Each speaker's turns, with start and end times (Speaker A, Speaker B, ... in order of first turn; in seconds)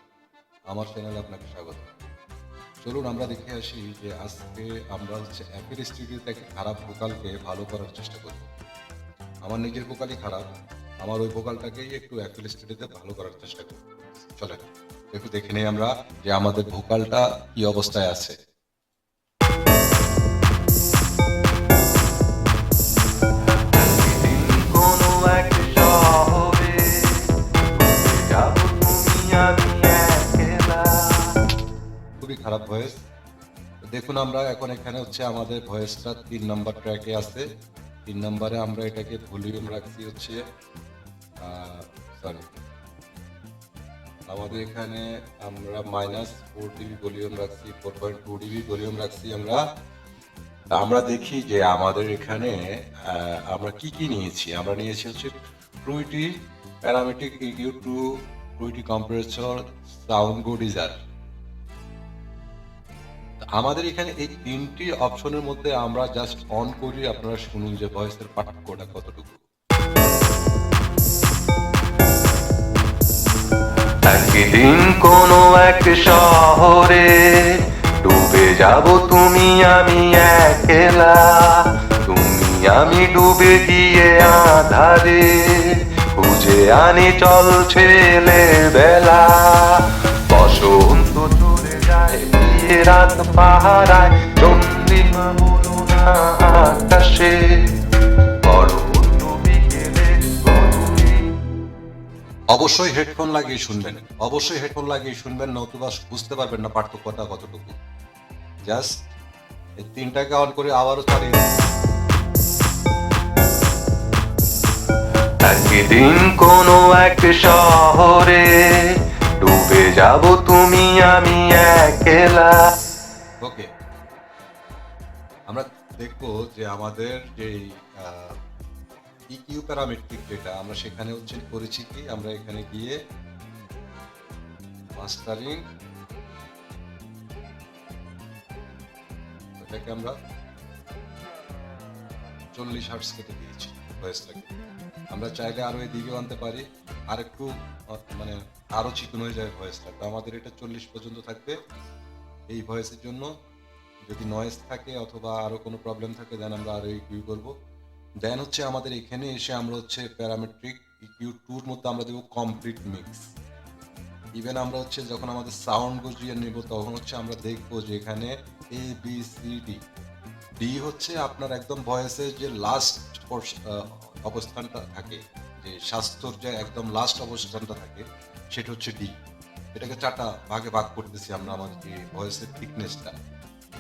Speaker A: 0.7-1.9, 2.8-8.5, 9.5-10.4, 11.0-14.6, 15.1-18.4, 32.2-33.0, 34.0-37.5, 38.1-40.4, 41.4-42.5, 44.3-49.6, 50.7-56.3, 56.9-58.0, 58.6-61.0, 63.6-69.4, 102.5-107.8, 108.7-109.0, 109.8-111.5, 115.5-118.4, 119.4-122.4, 125.5-128.3, 129.3-133.0, 134.9-135.6, 139.6-140.2, 142.5-144.5, 145.1-151.6, 152.5-153.3, 154.1-157.5, 158.2-163.3, 164.4-169.8, 170.6-179.1, 179.7-183.1
Speaker B: 23.8-31.4, 74.1-97.7, 98.5-101.3, 115.7-118.8, 119.9-122.5